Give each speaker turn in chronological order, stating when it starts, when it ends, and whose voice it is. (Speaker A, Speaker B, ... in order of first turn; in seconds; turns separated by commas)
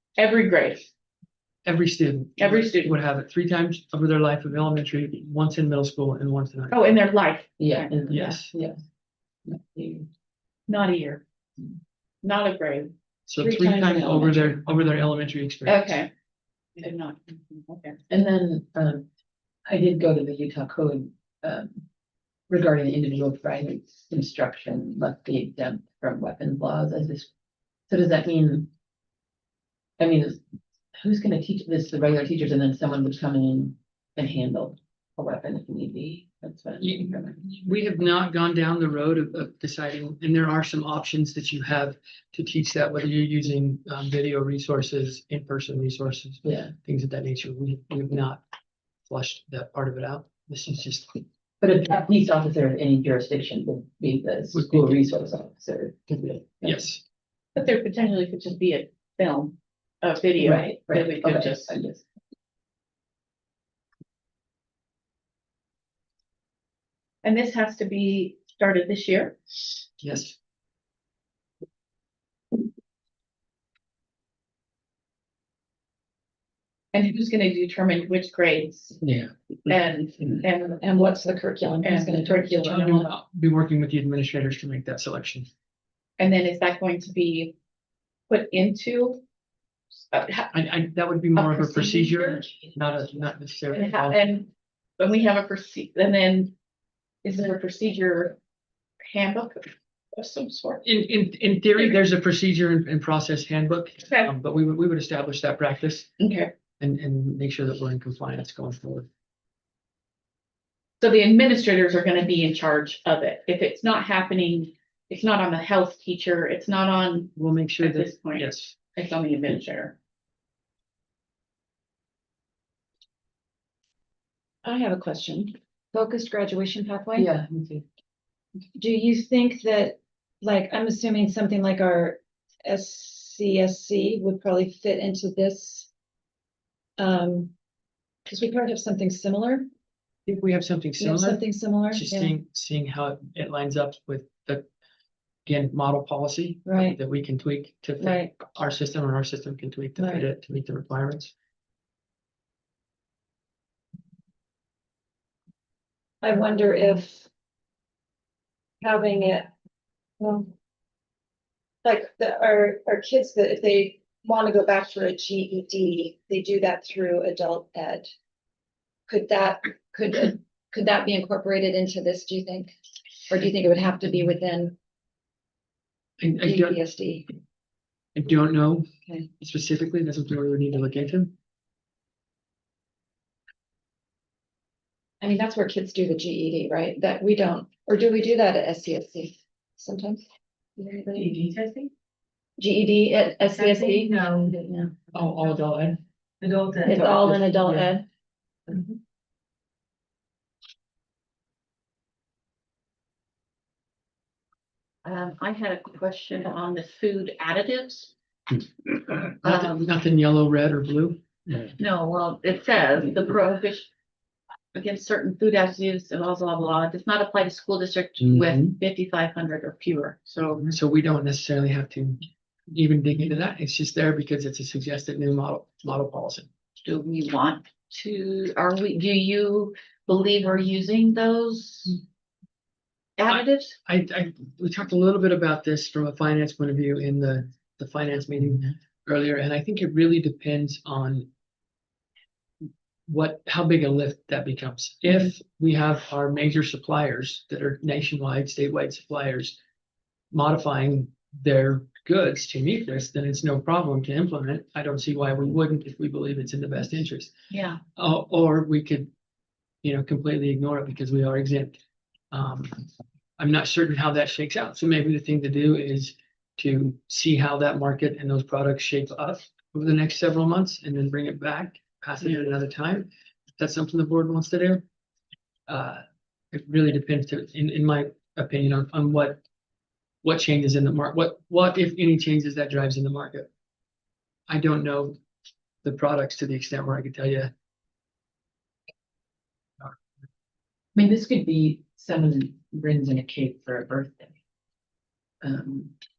Speaker A: 0.2-0.9, Speaker B: 1.6-6.8, Speaker A: 2.4-3.0, Speaker A: 6.7-8.3, Speaker C: 7.6-8.8, Speaker B: 8.1-8.5, Speaker C: 9.4-10.1, Speaker A: 10.7-11.2, Speaker A: 12.2-12.9, Speaker B: 13.3-16.0, Speaker D: 13.4-14.5, Speaker A: 15.7-16.1, Speaker A: 16.8-18.0, Speaker C: 18.1-19.1, Speaker C: 19.6-21.8, Speaker C: 22.5-27.3, Speaker C: 27.9-28.7, Speaker C: 30.0-30.4, Speaker C: 30.9-37.5, Speaker B: 36.8-48.4, Speaker C: 46.4-46.7, Speaker B: 49.1-51.2, Speaker C: 51.6-56.8, Speaker B: 54.5-55.0, Speaker B: 56.6-57.0, Speaker A: 57.5-61.7, Speaker C: 60.4-62.0, Speaker A: 67.2-69.7, Speaker B: 70.0-70.3, Speaker A: 76.9-79.0, Speaker A: 79.7-81.1, Speaker D: 80.8-83.0, Speaker A: 81.8-83.0, Speaker B: 82.6-85.5, Speaker A: 86.2-87.5, Speaker A: 88.3-89.2, Speaker A: 90.1-90.5, Speaker B: 90.5-94.2, Speaker A: 91.3-92.4, Speaker A: 93.7-96.5, Speaker A: 97.2-98.4, Speaker A: 99.0-100.8, Speaker B: 100.8-106.1, Speaker A: 106.2-106.5, Speaker B: 106.8-109.1, Speaker A: 111.0-119.9, Speaker B: 117.3-118.7, Speaker D: 124.6-127.3, Speaker C: 127.2-127.8, Speaker D: 128.8-135.9, Speaker D: 137.0-137.5, Speaker D: 138.2-139.6, Speaker B: 140.2-144.7, Speaker D: 141.0-142.3, Speaker B: 145.4-151.3, Speaker D: 146.7-147.0, Speaker D: 148.0-148.3, Speaker D: 150.0-150.2, Speaker D: 156.2-157.3, Speaker D: 158.8-159.5, Speaker D: 160.2-160.5, Speaker D: 161.8-168.1, Speaker D: 169.1-172.7, Speaker D: 173.3-174.7, Speaker B: 176.2-176.8, Speaker D: 176.4-177.2, Speaker B: 178.1-178.9, Speaker B: 179.4-181.3, Speaker D: 185.2-191.4, Speaker C: 191.2-191.9, Speaker D: 192.6-194.9, Speaker B: 195.1-196.0, Speaker C: 196.4-197.5, Speaker D: 196.8-198.1, Speaker A: 205.0-208.1, Speaker A: 209.4-209.9, Speaker B: 209.4-211.2, Speaker A: 211.8-213.9, Speaker A: 214.7-220.7, Speaker B: 220.6-226.5, Speaker A: 226.8-232.0, Speaker A: 233.2-233.8, Speaker B: 233.8-241.3, Speaker B: 243.1-249.6, Speaker B: 250.3-257.3, Speaker A: 257.5-257.8, Speaker B: 257.9-259.1, Speaker B: 259.8-261.8, Speaker B: 262.3-262.8, Speaker B: 263.4-274.8, Speaker B: 275.7-279.4, Speaker B: 280.2-283.5, Speaker B: 284.5-285.2, Speaker B: 285.8-287.5, Speaker C: 290.9-294.4, Speaker C: 295.4-295.9